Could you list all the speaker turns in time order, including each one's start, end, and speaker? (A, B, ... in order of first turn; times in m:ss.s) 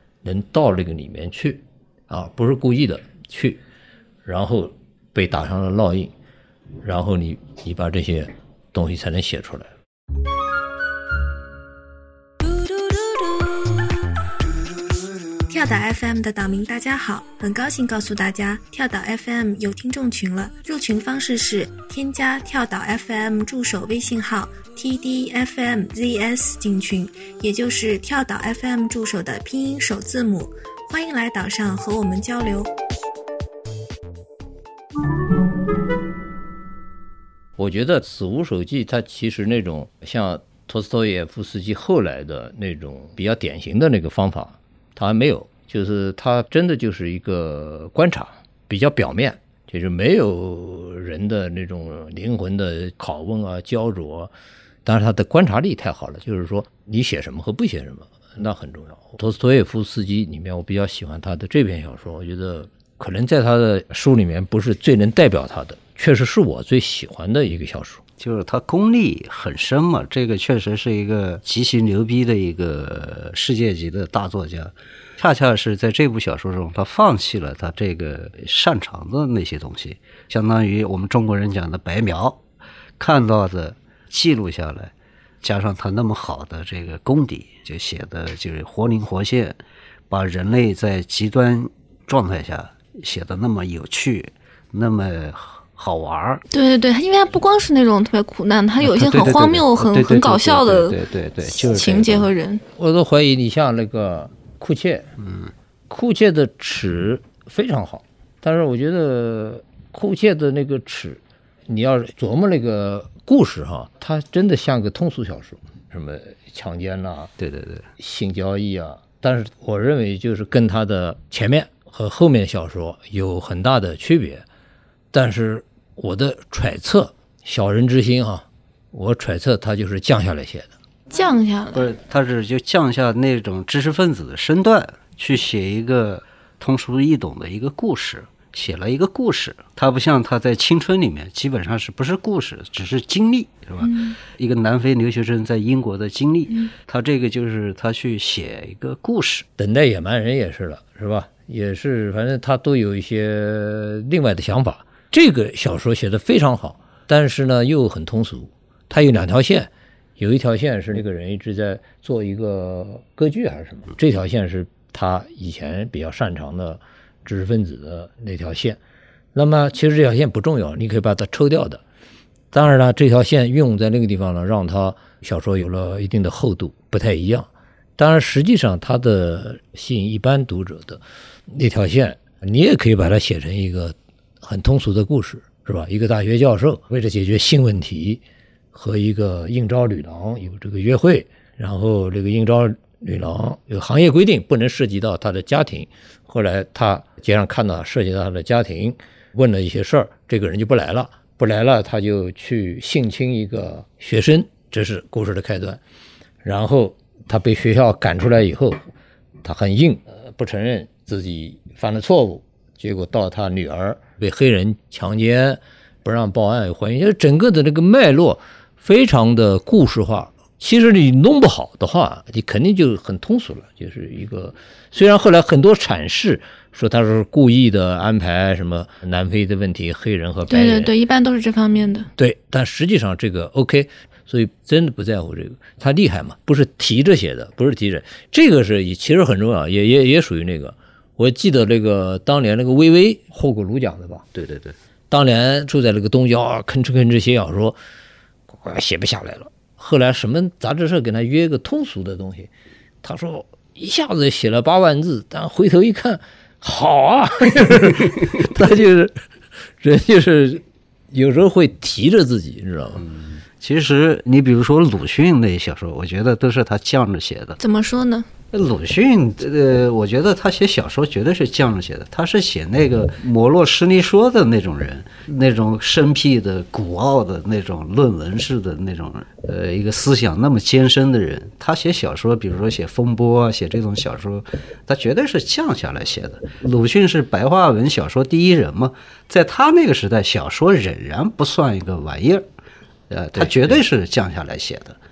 0:00.2-0:03.6 A
0:04.2-0:06.1 A
0:06.8-0:09.7 A
0:15.5-0:32.7 B
0:37.6-0:54.3 A
0:54.8-1:08.0 A
1:08.2-1:22.4 C
1:23.0-1:29.6 C
1:30.1-1:36.4 C
1:36.5-1:42.6 B
1:38.8-1:42.3 C
1:42.8-1:45.0 A
1:45.9-1:57.3 A
1:57.4-1:57.9 C
1:58.0-2:04.4 A
2:05.1-2:10.7 A
2:11.1-2:11.9 B
2:11.7-2:29.5 C
2:23.8-2:24.2 B
2:29.6-2:48.8 A
2:49.4-2:51.8 A
2:52.5-3:08.2 A
3:08.7-3:25.8 A
3:26.4-3:28.8 A
3:29.4-3:50.9 A
3:50.5-3:52.1 B
3:52.2-4:04.3 A
4:04.4-4:04.8 C
4:05.1-4:07.8 A
4:08.5-4:12.5 A
4:13.0-4:19.1 A
4:19.8-4:23.1 A
4:23.6-4:27.6 C
4:27.6-4:28.3 B
4:28.5-4:52.4 C
4:53.1-4:55.0 C
4:53.4-4:53.8 A